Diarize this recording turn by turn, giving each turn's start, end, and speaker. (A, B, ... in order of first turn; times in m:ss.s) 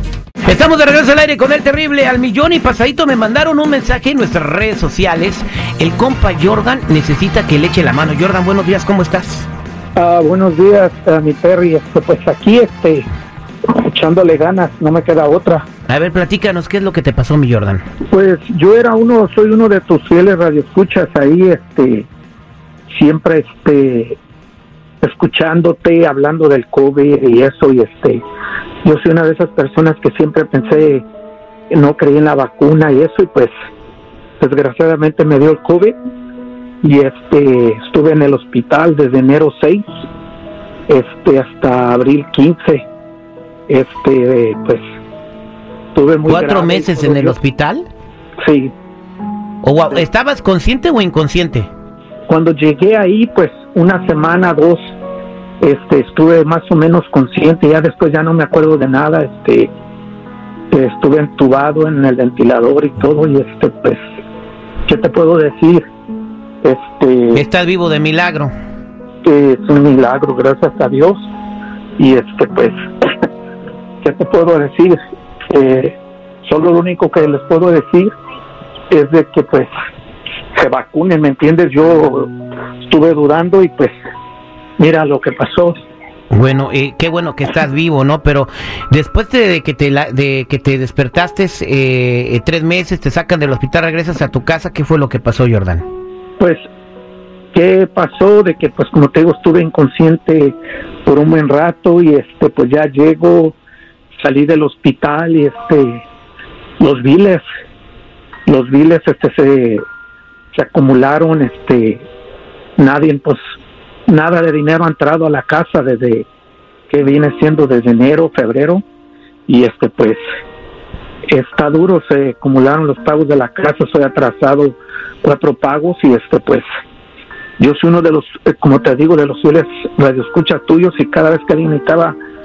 0:00.4-0:09.5 A
0:10.0-0:13.1 B
0:13.7-0:15.7 B
0:15.9-0:17.8 A
0:18.1-0:22.1 B
0:22.9-0:24.2 B
0:25.0-0:28.2 B
0:28.8-0:31.1 B
0:31.7-0:33.5 B
0:34.4-0:36.0 B
0:36.8-0:39.9 B
0:40.9-0:42.9 B
0:43.7-0:44.8 B
0:46.0-0:47.4 B
0:46.2-0:47.9 A
0:48.4-0:48.7 B
0:49.6-0:51.7 A
0:52.3-0:54.9 B
0:55.6-0:59.7 B
1:00.7-1:04.0 B
1:04.9-1:05.8 B
1:06.6-1:07.4 B
1:07.3-1:08.5 A
1:09.2-1:11.3 B
1:12.0-1:12.8 B
1:14.0-1:15.0 B
1:15.5-1:18.2 B
1:18.9-1:19.7 B
1:20.6-1:22.3 B
1:22.9-1:23.9 B
1:24.8-1:25.8 B
1:26.3-1:35.8 A
1:36.4-1:36.6 B
1:37.5-1:43.6 B
1:44.2-1:46.0 B
1:46.8-1:47.4 B
1:48.5-1:49.8 B
1:50.5-1:52.1 B
1:52.8-1:53.4 B
1:54.1-1:56.3 B
1:56.9-1:58.8 B
1:59.5-2:00.2 B
2:01.3-2:06.6 B
2:07.6-2:12.2 B